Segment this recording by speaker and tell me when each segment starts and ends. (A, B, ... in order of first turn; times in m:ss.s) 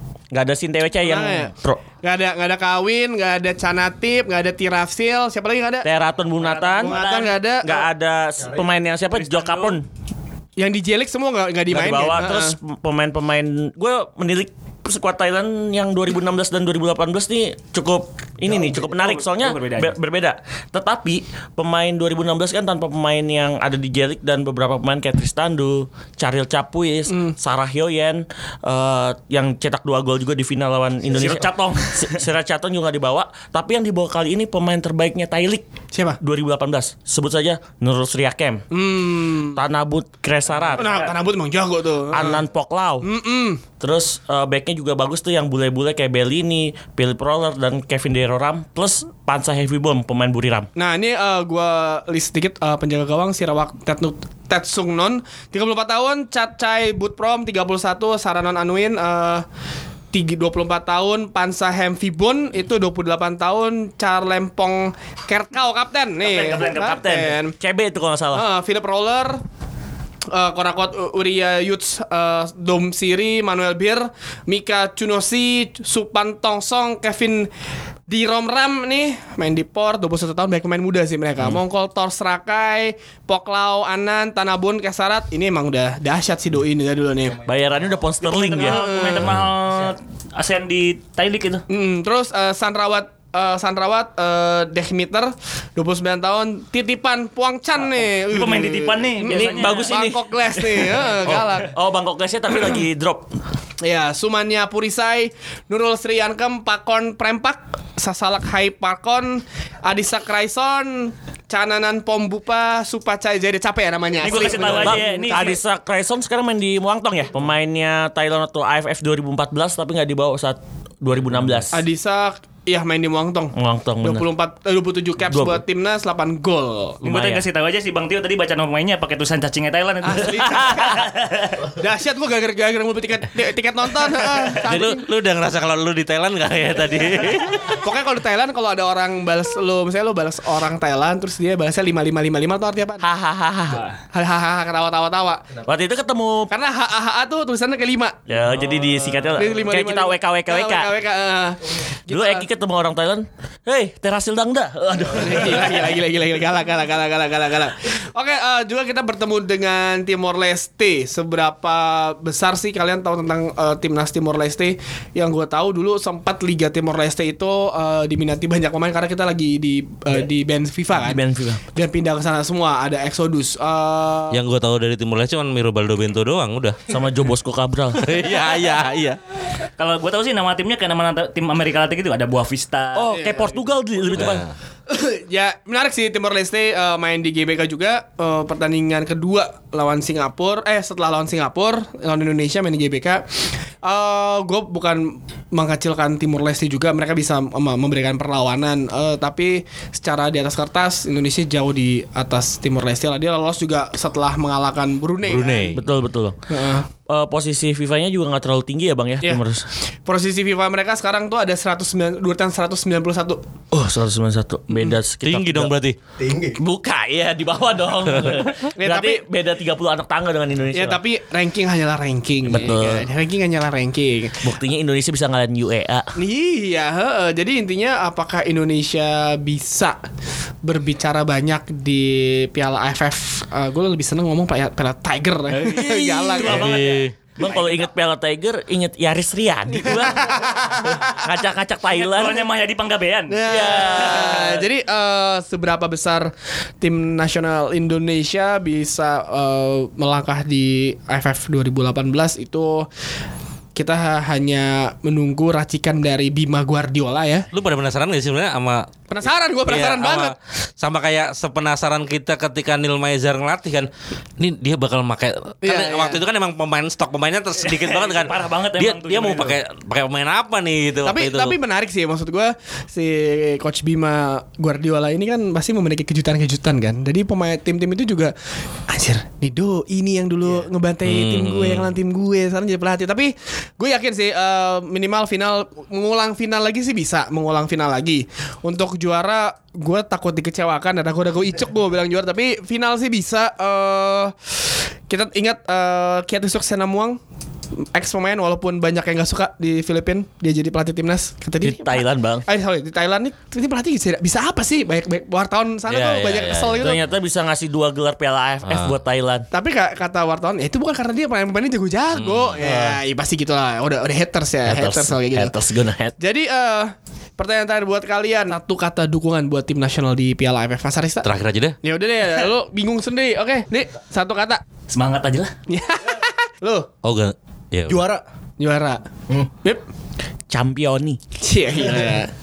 0:00.3-0:01.8 A
0:01.0-0:05.9 B
0:05.8-0:07.0 A
0:06.4-0:07.4 C
0:06.8-0:07.9 B
0:07.6-0:09.8 A
0:08.4-0:08.7 D
0:09.2-0:09.8 C
0:10.6-0:12.6 B
0:11.7-0:35.6 A
0:18.4-0:20.0 C
0:31.1-0:32.2 C
0:35.9-0:36.2 B
0:36.2-0:38.6 A
0:38.7-0:39.6 B
0:39.6-0:41.1 A
0:40.6-0:41.1 C
0:40.8-0:42.4 B
0:42.1-0:43.1 A
0:43.0-0:43.6 B
0:43.8-0:50.7 A
0:50.8-0:59.4 B
1:00.1-1:07.6 B
1:06.2-1:07.0 C
1:06.6-1:08.4 A
1:08.3-1:09.4 B
1:10.3-1:17.5 B
1:18.1-1:27.4 B
1:27.2-1:28.1 D
1:27.5-1:28.8 A
1:28.3-1:29.4 B
1:28.3-1:31.6 C
1:31.7-1:41.7 B
1:38.2-1:40.0 C
1:39.3-1:43.3 A
1:40.7-1:40.9 C
1:43.8-1:55.6 B
1:54.2-1:55.6 C
1:54.5-2:01.8 A
2:01.7-2:07.0 B
2:03.6-2:04.2 A
2:05.3-2:05.6 A
2:07.0-2:07.4 A
2:07.0-2:11.7 C
2:10.0-2:11.1 B
2:10.5-2:11.0 A
2:11.7-2:15.0 B
2:14.6-2:17.8 E
2:17.7-2:23.0 B
2:23.0-2:23.9 A
2:24.1-2:25.4 B
2:25.7-2:26.5 A
2:26.5-2:28.3 B
2:28.3-2:30.9 A
2:29.3-2:32.5 B
2:32.1-2:35.8 A
2:35.2-2:51.2 B
2:51.0-2:51.6 A
2:51.7-2:54.4 B
2:54.3-2:56.8 E
2:56.9-2:58.1 A
2:58.0-2:59.2 E
2:59.8-3:03.2 C
3:03.0-3:04.4 A
3:03.1-3:03.6 B
3:04.2-3:04.5 E
3:04.9-3:25.8 B
3:25.2-3:25.8 E
3:25.8-3:26.4 A
3:26.5-3:26.9 B
3:27.0-3:29.7 A
3:29.2-3:33.4 B
3:33.7-3:35.7 A
3:35.2-3:36.0 E
3:36.2-3:36.6 D
3:36.6-3:41.0 A
3:38.7-3:39.2 B
3:40.7-3:44.5 B
3:42.5-3:43.1 A
3:44.4-3:46.1 A
3:46.2-3:50.0 B
3:50.6-3:56.8 B
3:55.6-3:56.9 C
3:55.6-3:56.8 A
3:56.4-3:57.2 E
3:57.4-4:02.4 A
3:59.9-4:01.2 B
4:01.9-4:04.0 C
4:03.3-4:12.9 B
4:03.5-4:04.6 A
4:13.8-4:17.5 B
4:17.5-4:18.9 E
4:19.1-4:20.4 B
4:19.7-4:31.6 E
4:25.6-4:26.2 B
4:27.6-4:29.6 C
4:31.0-4:38.3 B
4:38.9-4:57.2 B
4:41.0-4:41.9 E
4:57.9-5:07.0 B
5:01.6-5:02.5 A
5:05.9-5:06.8 E
5:06.8-5:09.5 A
5:08.7-5:09.0 E
5:09.5-5:15.6 B
5:12.1-5:12.7 E
5:12.6-5:13.0 D
5:14.7-5:16.2 A
5:16.2-5:21.3 B
5:21.2-5:21.8 E
5:21.8-5:24.6 B
5:24.9-5:25.6 C
5:25.7-5:26.9 B
5:27.0-5:28.0 E
5:27.9-5:28.2 D
5:28.6-5:29.0 B
5:30.5-5:31.2 A
5:31.4-5:32.3 B